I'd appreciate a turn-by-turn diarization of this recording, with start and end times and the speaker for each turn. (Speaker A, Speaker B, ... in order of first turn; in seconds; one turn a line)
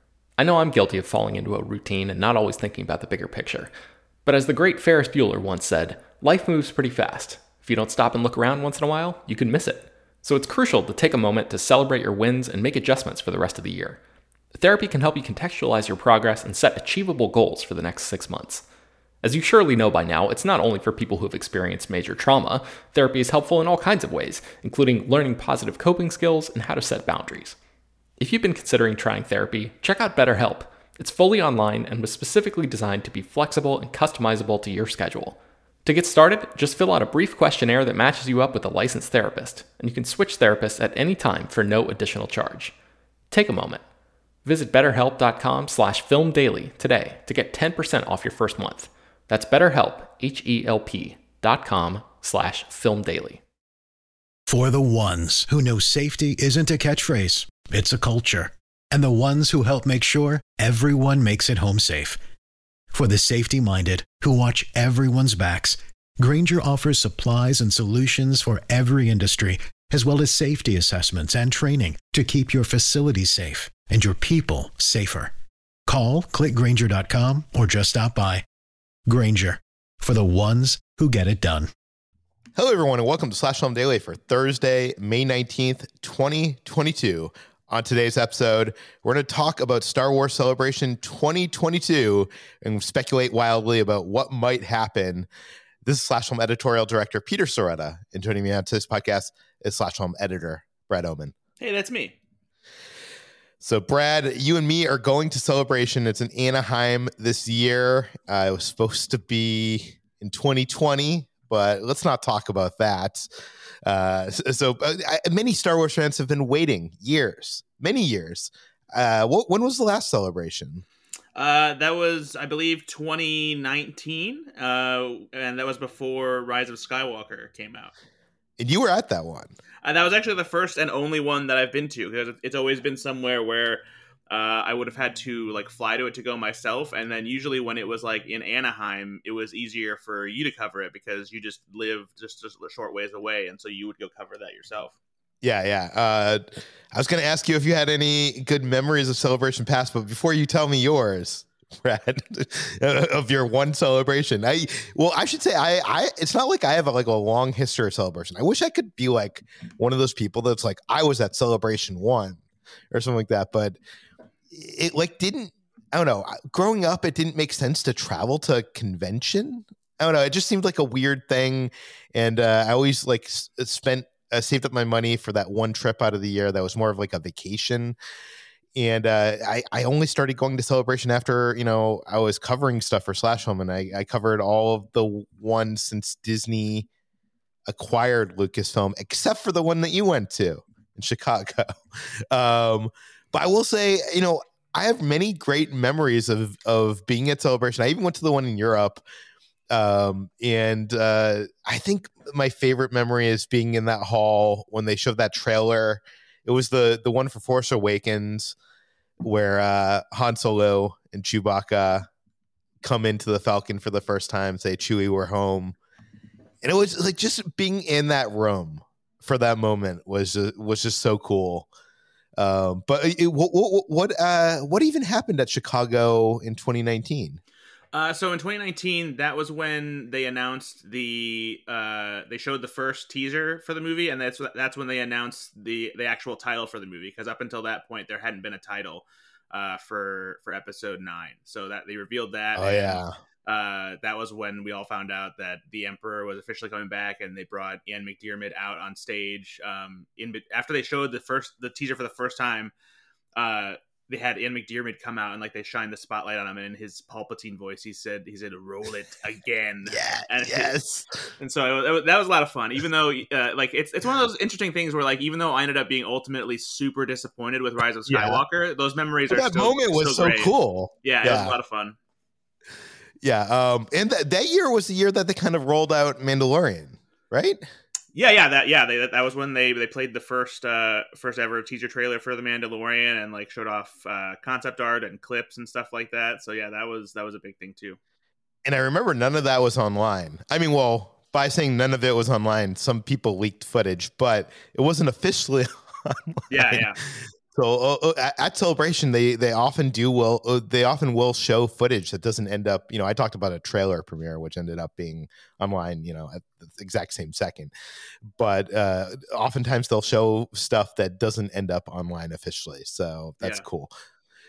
Speaker A: 0.4-3.7
Speaker A: 4.3-14.0
Speaker A: 14.6-18.6
Speaker A: 19.2-27.6
Speaker A: 28.2-42.7
Speaker A: 43.3-43.8
Speaker A: 44.5-53.4
Speaker B: 54.5-62.2
Speaker B: 62.9-75.3
Speaker B: 75.9-78.5
Speaker B: 79.1-81.7
Speaker C: 82.6-95.3
Speaker C: 95.8-101.3
Speaker D: 101.6-102.2
Speaker C: 103.6-113.3
Speaker C: 113.9-120.8
Speaker D: 121.4-127.9
Speaker C: 128.6-129.6
Speaker D: 129.8-144.9
Speaker C: 145.4-163.8
Speaker C: 164.5-178.0
Speaker C: 178.8-186.9
Speaker C: 187.7-199.0
Speaker C: 199.7-208.6
Speaker C: 209.2-212.1
Speaker C: 212.8-215.8
Speaker C: 216.6-221.7
Speaker C: 222.4-227.4
Speaker D: 227.9-252.7
Speaker C: 242.6-243.1
Speaker D: 253.4-260.8
Speaker C: 259.9-261.2
Speaker D: 261.4-272.0
Speaker C: 268.1-268.4
Speaker C: 269.3-271.6
Speaker C: 273.2-277.6
Speaker D: 278.1-288.0
Speaker C: 288.6-307.7
Speaker D: 296.5-297.0
Speaker C: 308.3-313.9